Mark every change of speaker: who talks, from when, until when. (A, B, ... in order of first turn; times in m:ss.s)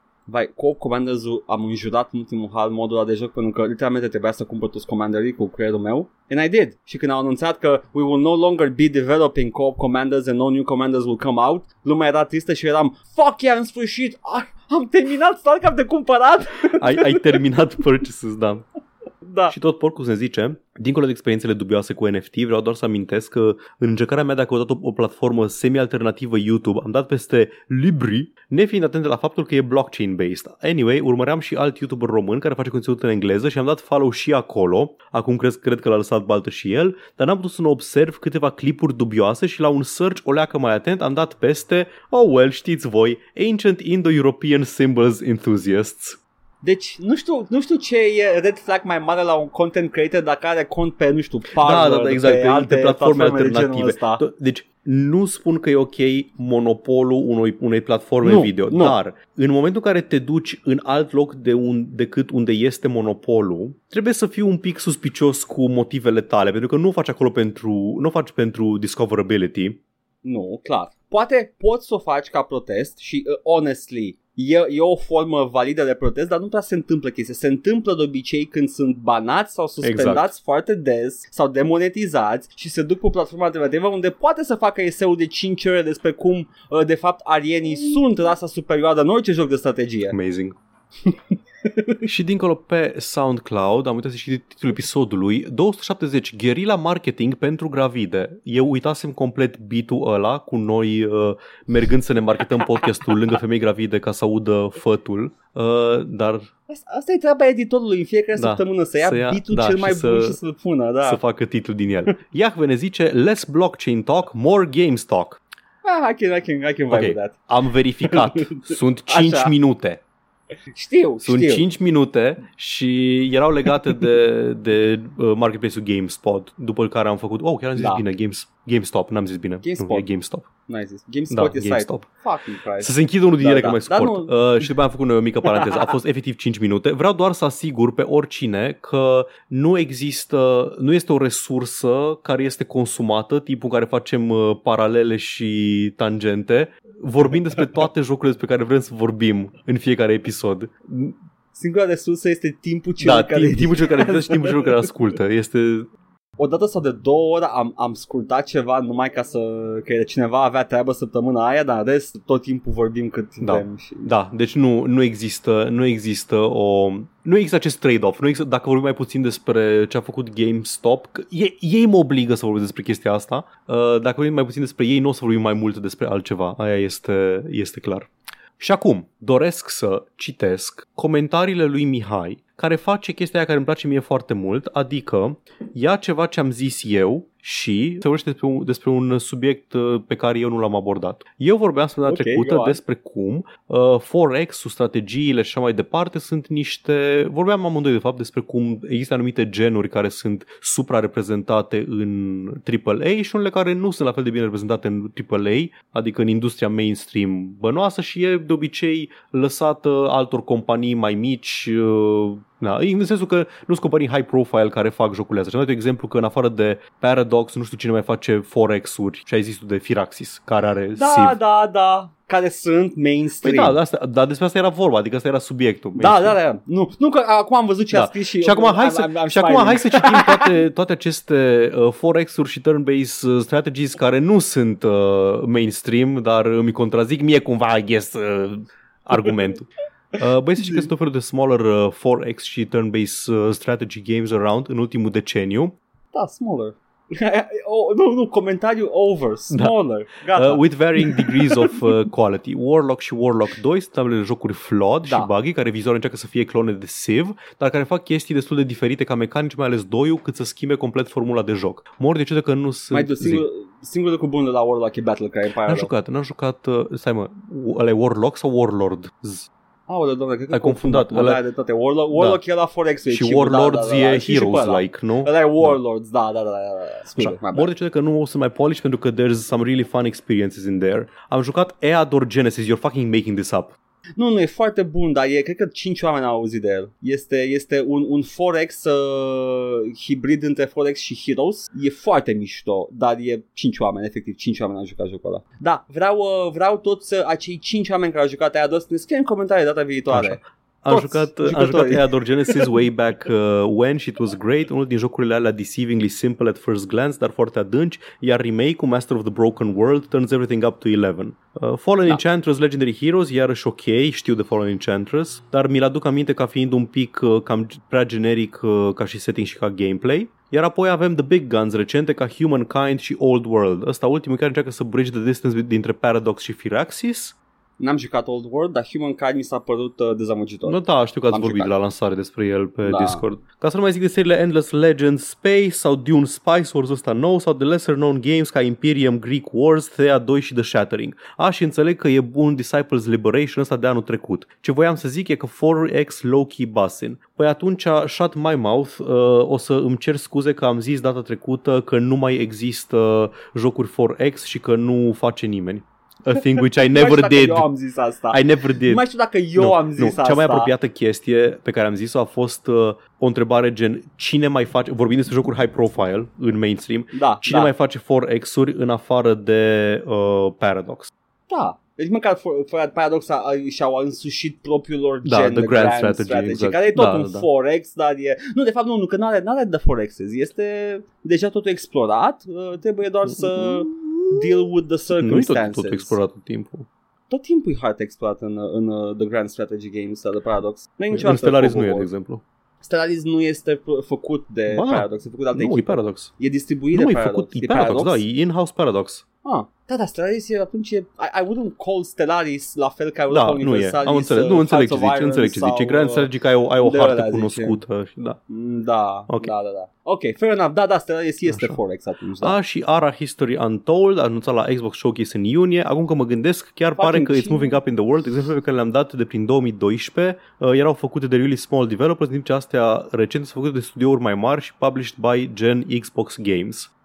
0:00.3-0:17.4 A
0:16.8-0:18.6 B
0:19.2-0:19.5 A
0:19.5-0:46.2 B
0:46.6-0:54.2 A
0:51.6-1:09.8 B
0:58.2-0:58.9 A
1:10.2-1:30.2 A
1:19.8-1:20.3 B
1:30.1-1:30.6 B
1:31.6-1:32.0 A
1:32.0-1:46.5 B
1:46.7-1:51.2 A
1:48.4-1:50.4 B
1:51.0-1:55.4 B
1:55.8-1:57.4 A
1:56.9-2:00.0 B
1:58.0-1:59.5 A
2:00.7-2:01.6 A
2:01.2-2:10.5 B
2:07.8-2:08.0 A
2:09.6-2:10.0 A
2:10.7-2:14.3 A
2:11.3-2:12.1 B
2:12.8-2:31.2 B
2:31.5-2:34.7 A
2:33.0-2:35.9 B
2:36.4-2:44.1 A
2:43.4-3:41.4 B
3:12.0-3:12.8 A
3:41.0-3:43.8 A
3:43.4-3:46.4 B
3:46.0-3:50.6 A
3:47.9-4:05.7 B
4:06.1-4:11.9 A
4:10.3-4:23.4 B
4:15.0-4:15.3 A
4:22.9-4:25.9 A
4:25.6-4:29.5 B
4:29.9-4:37.7 A
4:30.5-4:31.4 B
4:32.1-4:32.4 B
4:33.1-4:35.8 B
4:37.2-4:43.7 B
4:44.2-5:02.7 A
5:00.1-5:27.3 B
5:27.8-5:31.7 A
5:30.6-5:57.7 B
5:32.8-5:33.2 A
5:56.3-6:00.7 A
5:58.3-5:59.0 B
5:59.6-6:11.1 B
6:07.1-6:07.7 A
6:11.5-6:26.2 A
6:15.2-6:17.5 B
6:23.2-6:26.9 B
6:27.3-6:32.1 A
6:31.1-6:32.4 B
6:32.8-6:38.2 A
6:34.7-6:36.3 B
6:36.9-6:39.2 B
6:39.4-6:46.3 A
6:43.3-6:48.4 B
6:46.8-6:47.8 A
6:48.5-6:52.6 A
6:51.5-6:51.8 B
6:52.4-7:06.9 B
6:57.0-6:57.7 A